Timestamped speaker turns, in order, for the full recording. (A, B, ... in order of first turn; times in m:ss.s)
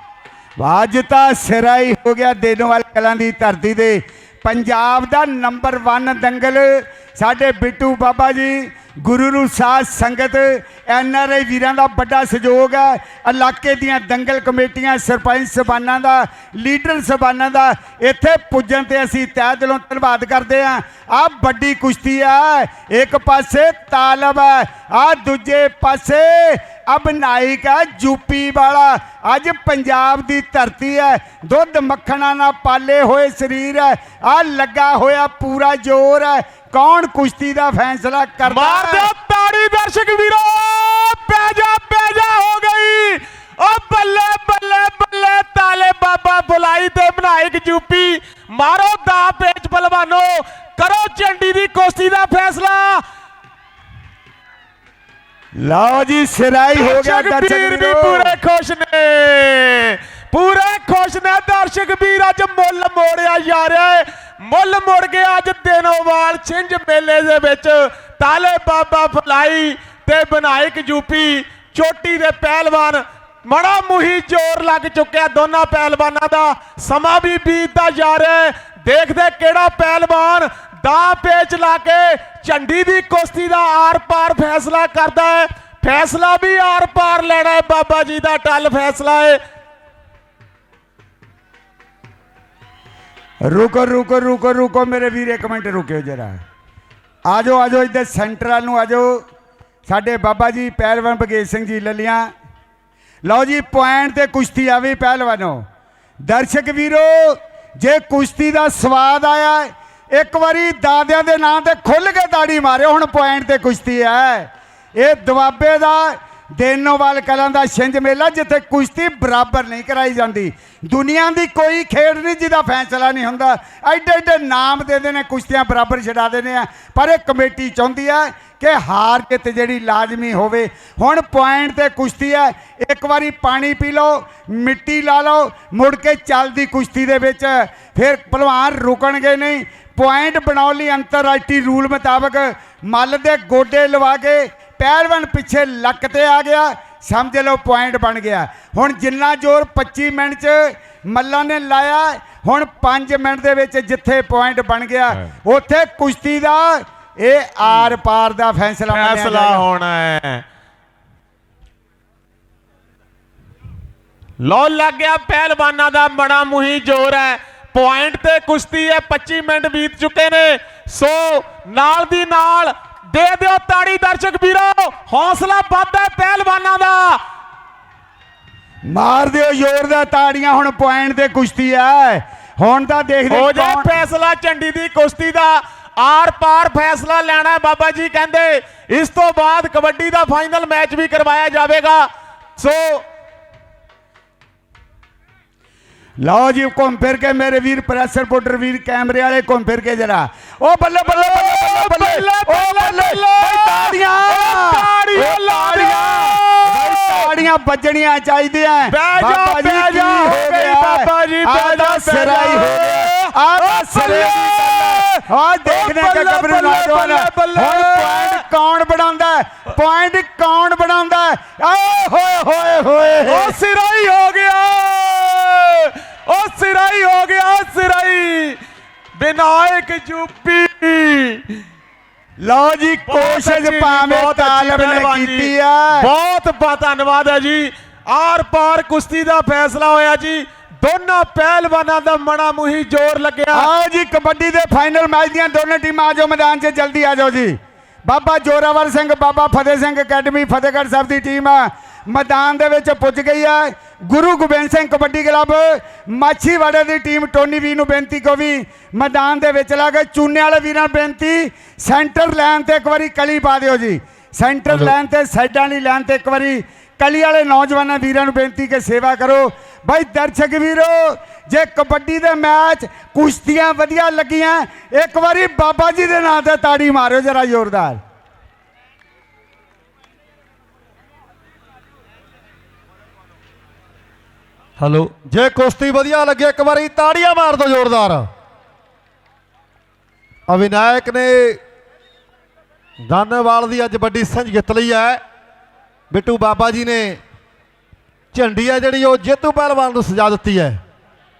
0:00.6-0:39.1 A
0:38.5-0:53.0 B
0:55.6-0:58.4 A
0:56.7-1:29.4 B
1:33.4-1:36.4 A
1:37.3-1:39.2 A
1:39.9-1:42.3 A
1:43.2-1:45.6 A
1:46.2-2:39.7 A
2:38.9-2:40.4 B
2:44.4-2:57.2 B
2:58.9-3:03.9 A
3:03.3-3:13.1 B
3:16.2-3:43.6 A
3:21.1-3:27.4 B
3:28.9-3:38.4 B
3:43.3-3:48.6 B
3:49.2-3:51.6 B
3:52.4-3:56.1 A
3:53.1-4:03.7 B
4:03.5-4:38.0 A
4:44.8-4:48.3 C
4:50.5-4:51.6 C
4:53.0-4:55.2 C
4:56.1-4:57.2 C
4:58.3-5:00.8 C